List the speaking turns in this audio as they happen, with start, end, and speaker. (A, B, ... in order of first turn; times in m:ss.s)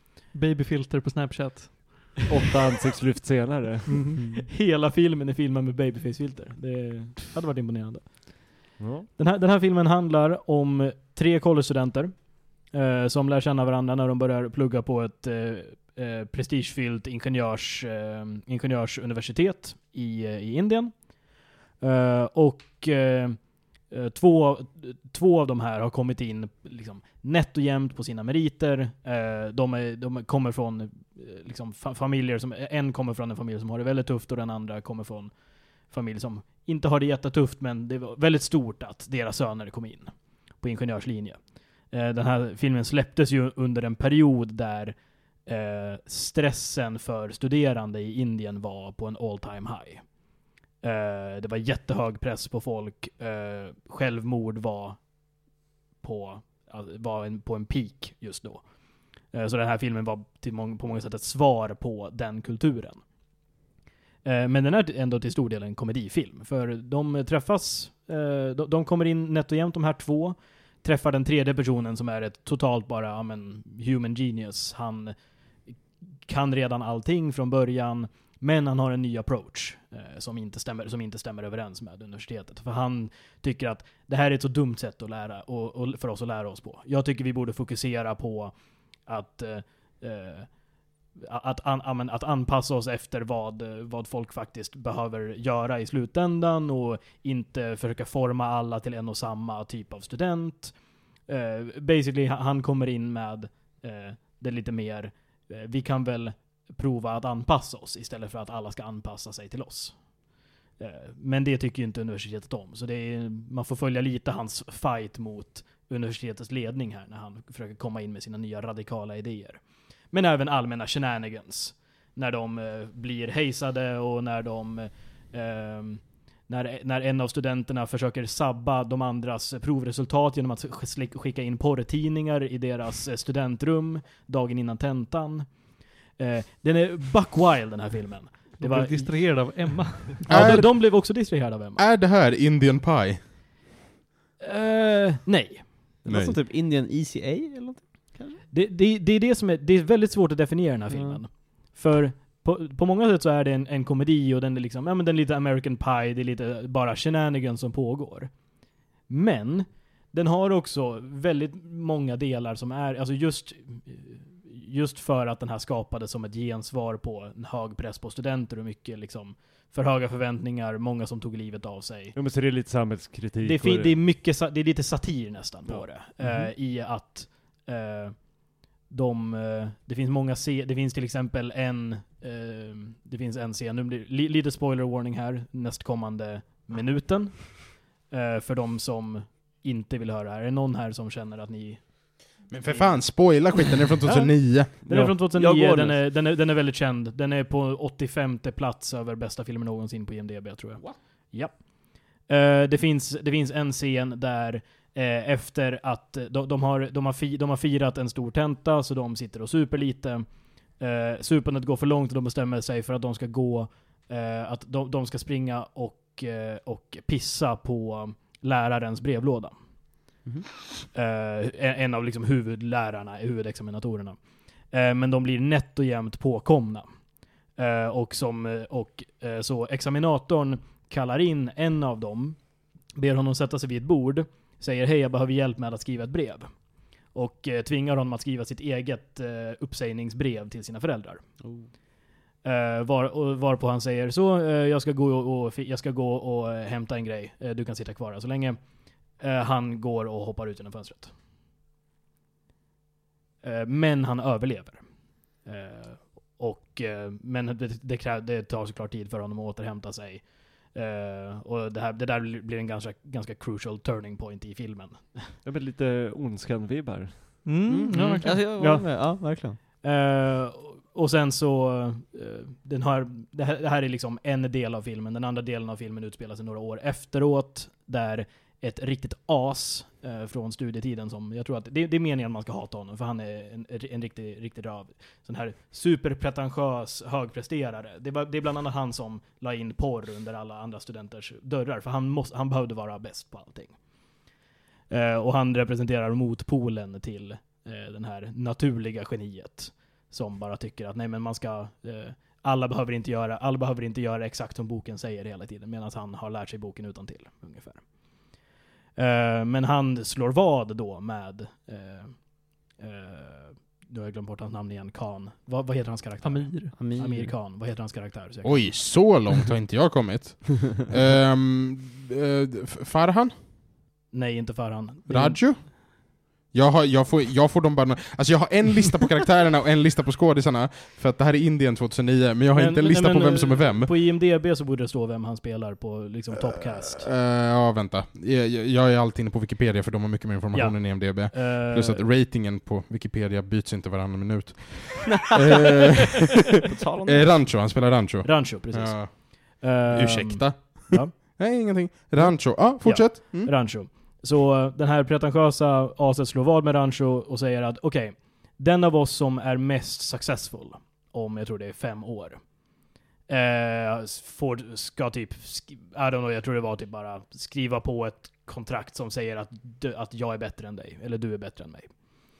0:00.3-0:02.2 A
0:02.3-0:04.2 B
0:03.9-0:04.4 A
0:04.3-0:20.9 C
0:08.8-0:09.1 B
0:21.8-0:23.4 C
0:23.9-0:35.3 C
0:35.9-0:41.4 C
0:41.9-0:45.0 C
0:45.4-0:50.0 C
0:50.8-0:55.0 C
0:56.0-0:58.6 C
0:59.3-1:03.0 C
1:04.2-1:15.1 C
1:16.3-1:28.5 C
1:29.1-1:30.5 C
1:31.2-1:40.7 C
1:41.3-1:50.0 C
1:50.8-2:15.5 C
2:16.2-2:19.2 C
2:18.6-2:20.3 A
2:20.2-2:21.8 C
2:20.3-2:21.0 D
2:21.8-2:23.2 D
2:24.4-2:25.7 C
2:26.0-2:28.4 E
2:26.1-2:26.4 D
2:28.5-2:38.3 C
2:30.9-2:31.2 E
2:39.1-2:52.1 C
2:52.1-2:54.0 B
2:53.4-2:58.2 C
2:56.2-2:56.5 E
2:58.9-3:11.8 C
3:12.5-3:15.1 D
3:14.0-3:21.7 C
3:15.3-3:16.0 E
3:22.3-3:30.3 C
3:30.8-3:39.5 C
3:40.9-3:44.2 C
3:44.7-3:46.9 C
3:47.6-3:52.4 C
3:53.0-3:56.5 C
3:57.1-4:01.2 C
4:01.4-4:01.7 E
4:02.4-4:08.6 C
4:09.2-4:11.1 C
4:13.4-4:14.8 C
4:15.4-4:25.3 C
4:25.4-4:27.4 B
4:27.4-4:28.4 A
4:27.7-4:29.6 E
4:28.6-4:28.8 B
4:29.8-4:53.7 C
4:54.9-5:07.8 C
5:09.0-5:12.2 C
5:12.8-5:18.9 C
5:16.2-5:16.7 A
5:16.8-5:17.3 E
5:18.4-5:23.3 D
5:24.1-5:25.4 C
5:25.1-5:25.8 D
5:26.5-5:33.9 D
5:32.6-5:37.1 C
5:36.6-5:49.1 D
5:40.5-5:42.0 C
5:46.6-5:47.4 E
5:48.2-5:51.4 C
5:49.9-5:53.5 D
5:52.2-6:02.4 C
6:03.3-6:11.9 C